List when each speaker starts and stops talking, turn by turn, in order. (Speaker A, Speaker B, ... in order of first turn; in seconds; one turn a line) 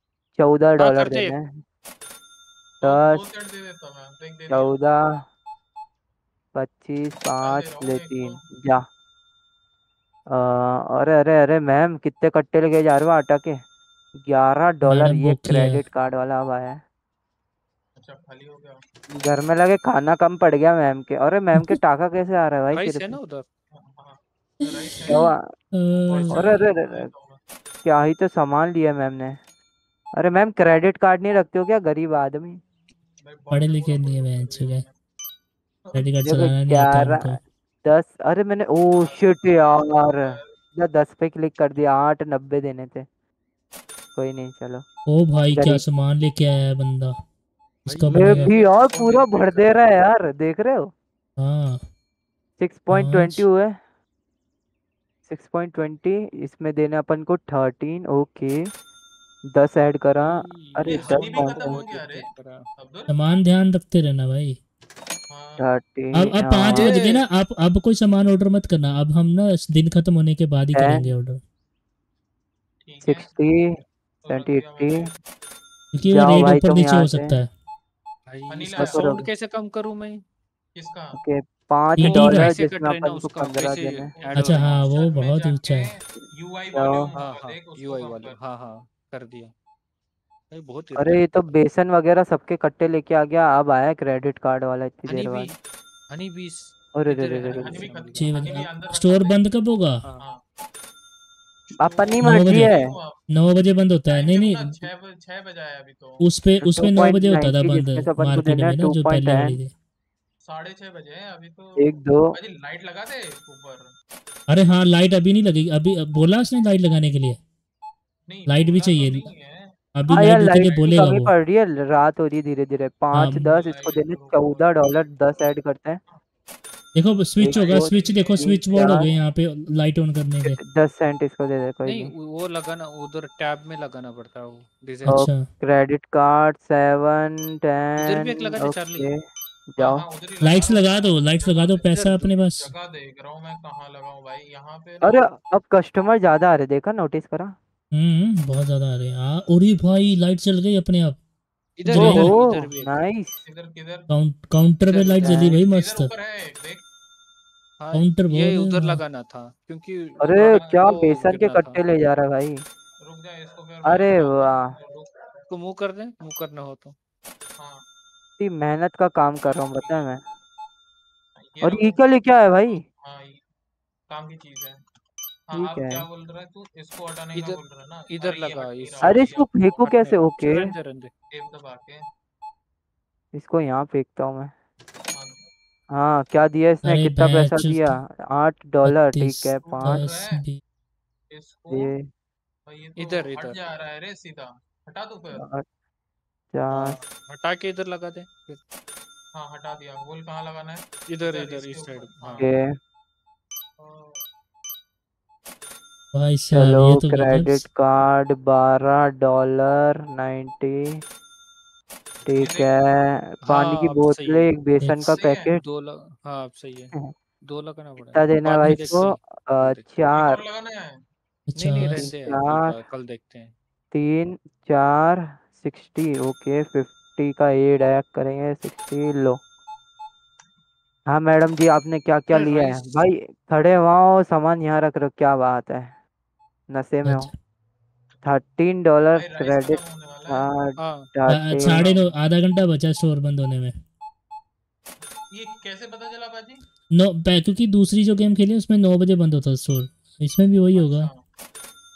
Speaker A: 0.4-1.6
Speaker B: 0.8-1.4
Speaker C: 2.8-5.2
Speaker A: 2.8-3.2
Speaker A: 4.5-5.2
Speaker A: 6.5-8.8
Speaker C: 7.4-8.4
Speaker A: 10.3-13.6
Speaker A: 14.2-16.8
Speaker D: 14.8-15.8
Speaker C: 18.0-18.8
Speaker A: 19.1-23.2
Speaker B: 22.7-23.4
Speaker C: 23.7-25.3
Speaker D: 24.6-26.6
Speaker A: 25.1-25.4
Speaker C: 26.1-27.4
Speaker A: 26.3-27.1
Speaker A: 27.8-29.4
Speaker A: 30.2-32.6
Speaker C: 33.2-34.9
Speaker D: 33.5-34.8
Speaker D: 35.9-37.4
Speaker A: 36.2-43.0
Speaker C: 39.0-40.5
Speaker A: 44.1-44.8
Speaker D: 45.1-47.1
Speaker A: 45.4-45.8
Speaker D: 47.9-48.5
Speaker B: 47.9-48.9
Speaker A: 48.1-50.9
Speaker C: 48.5-49.8
Speaker D: 51.4-51.8
Speaker A: 52.6-53.8
Speaker D: 52.9-53.4
Speaker A: 55.3-58.6
Speaker A: 59.5-61.7
Speaker B: 60.1-62.6
Speaker C: 60.9-63.1
Speaker D: 63.1-64.6
Speaker C: 65.3-65.7
Speaker A: 65.6-66.9
Speaker D: 66.2-71.4
Speaker B: 66.7-67.2
Speaker A: 70.7-71.1
Speaker C: 72.8-73.4
Speaker A: 73.0-73.7
Speaker C: 74.2-75.2
Speaker A: 74.3-75.1
Speaker D: 75.9-77.5
Speaker A: 76.1-77.3
Speaker B: 78.3-80.2
Speaker C: 78.5-79.2
Speaker A: 78.8-79.2
Speaker C: 80.7-81.2
Speaker A: 81.1-84.1
Speaker D: 82.0-82.5
Speaker B: 82.0-84.8
Speaker C: 84.1-88.3
Speaker D: 84.3-85.9
Speaker A: 86.7-87.1
Speaker B: 87.2-89.5
Speaker B: 90.5-91.2
Speaker A: 91.0-95.5
Speaker B: 95.1-95.5
Speaker B: 96.1-98.7
Speaker A: 96.9-97.9
Speaker C: 97.5-99.4
Speaker D: 98.2-100.0
Speaker C: 101.7-103.2
Speaker A: 101.8-102.9
Speaker D: 102.2-102.7
Speaker D: 103.3-104.8
Speaker C: 104.1-106.2
Speaker D: 106.2-109.7
Speaker A: 106.6-109.6
Speaker C: 110.4-113.9
Speaker A: 111.8-112.3
Speaker D: 114.5-117.4
Speaker C: 118.3-119.7
Speaker D: 118.5-119.3
Speaker D: 120.0-121.3
Speaker A: 120.1-126.0
Speaker C: 120.5-121.0
Speaker D: 123.1-123.5
Speaker C: 123.5-125.0
Speaker D: 127.0-130.6
Speaker A: 127.4-129.0
Speaker C: 127.5-128.9
Speaker A: 130.4-132.1
Speaker B: 131.8-135.2
Speaker D: 135.1-135.4
Speaker A: 135.1-139.2
Speaker B: 138.0-139.1
Speaker A: 139.7-140.0
Speaker C: 139.8-141.9
Speaker D: 140.4-142.7
Speaker B: 141.9-142.3
Speaker C: 142.6-145.3
Speaker A: 145.0-147.5
Speaker D: 147.9-151.2
Speaker B: 151.8-152.9
Speaker D: 151.8-152.3
Speaker A: 151.9-153.3
Speaker C: 153.4-154.1
Speaker D: 154.1-156.1
Speaker B: 154.9-155.6
Speaker A: 155.2-155.5
Speaker C: 155.6-156.8
Speaker B: 157.8-160.3
Speaker D: 157.9-159.0
Speaker A: 160.2-162.6
Speaker C: 160.2-160.8
Speaker B: 160.8-161.8
Speaker C: 163.0-165.4
Speaker A: 163.8-164.7
Speaker B: 165.5-166.9
Speaker C: 167.6-167.8
Speaker A: 168.4-170.2
Speaker C: 169.4-170.1
Speaker C: 171.4-172.0
Speaker A: 171.6-172.8
Speaker C: 172.7-173.4
Speaker C: 174.1-174.8
Speaker C: 175.5-179.5
Speaker A: 175.5-176.0
Speaker B: 178.1-181.1
Speaker A: 179.0-180.7
Speaker C: 181.3-182.0
Speaker A: 183.3-184.5
Speaker C: 185.2-185.5
Speaker A: 185.9-190.0
Speaker D: 186.8-188.0
Speaker D: 188.8-190.6
Speaker C: 189.8-190.4
Speaker C: 191.3-191.9
Speaker A: 191.7-192.0
Speaker C: 192.7-195.4
Speaker B: 193.0-193.6
Speaker A: 195.3-195.6
Speaker A: 196.5-197.0
Speaker B: 196.7-198.6
Speaker C: 199.3-202.5
Speaker B: 201.1-202.5
Speaker A: 202.4-202.7
Speaker C: 203.8-204.2
Speaker D: 206.1-207.7
Speaker A: 206.5-211.0
Speaker A: 212.2-215.6
Speaker C: 212.4-212.8
Speaker B: 213.4-214.5
Speaker D: 214.8-215.2
Speaker C: 215.2-215.5
Speaker B: 215.6-216.9
Speaker B: 217.5-219.8
Speaker A: 218.0-220.4
Speaker D: 218.6-218.9
Speaker C: 220.1-221.0
Speaker D: 221.5-222.1
Speaker B: 221.6-223.5
Speaker A: 221.9-222.7
Speaker A: 223.9-229.4
Speaker A: 231.1-235.9
Speaker B: 232.3-233.0
Speaker A: 236.7-237.3
Speaker D: 237.0-237.3
Speaker A: 238.2-241.8
Speaker C: 239.1-240.5
Speaker B: 240.8-241.1
Speaker D: 241.3-243.8
Speaker C: 245.3-246.6
Speaker D: 246.9-251.1
Speaker C: 250.7-251.2